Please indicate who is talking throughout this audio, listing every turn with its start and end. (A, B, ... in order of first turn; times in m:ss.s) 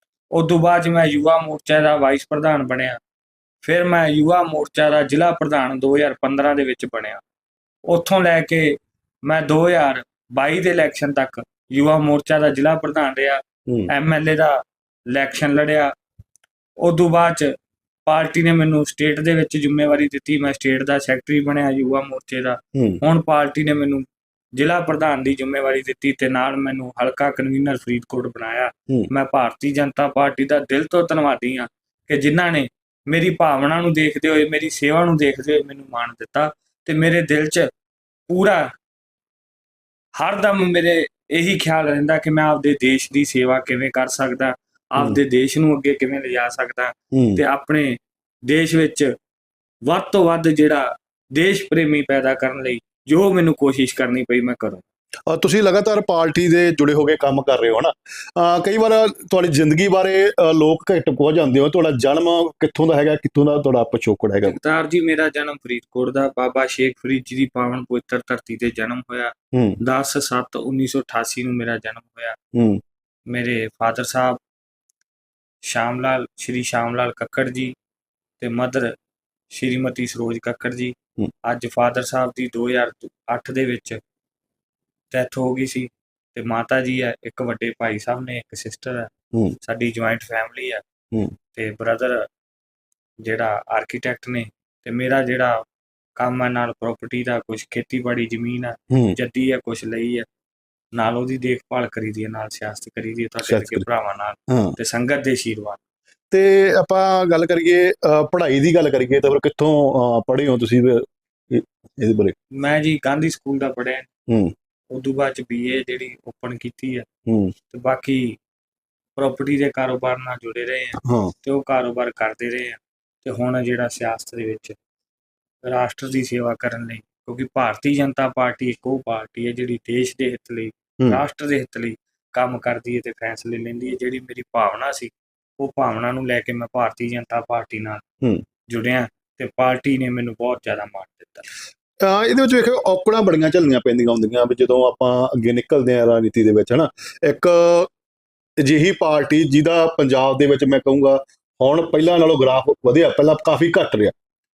0:00.3-0:03.0 A
0:03.6-0:07.2 A
0:07.8-0:15.9 A
0:16.8-0:17.5 A
0:18.1-0:37.7 A
0:22.8-0:23.0 B
0:38.3-0:38.7 A
0:40.2-0:49.1 A
0:47.1-0:47.4 B
0:49.9-0:54.8 A
0:55.3-1:04.6 B
1:04.4-1:12.4 A
1:09.5-1:09.8 B
1:12.5-1:12.8 B
1:13.3-1:14.4 A
1:15.6-1:17.7 A
1:18.4-1:18.9 A
1:19.5-1:24.0 A
1:25.1-1:29.1 A
1:29.6-1:30.8 A
1:31.5-1:32.3 A
1:33.2-1:35.6 A
1:36.2-1:40.3 A
1:38.9-1:39.2 B
1:41.0-1:45.8 A
1:43.4-1:43.8 B
1:44.5-1:44.8 B
1:46.3-1:52.4 B
1:52.6-1:54.1 A
1:54.3-1:54.5 B
1:54.9-1:57.1 A
1:57.3-1:57.5 B
1:57.7-1:58.4 A
1:59.2-2:04.8 A
2:01.0-2:01.3 B
2:05.6-2:18.0 A
2:18.7-2:21.5 A
2:22.0-2:27.9 B
2:28.6-2:34.1 B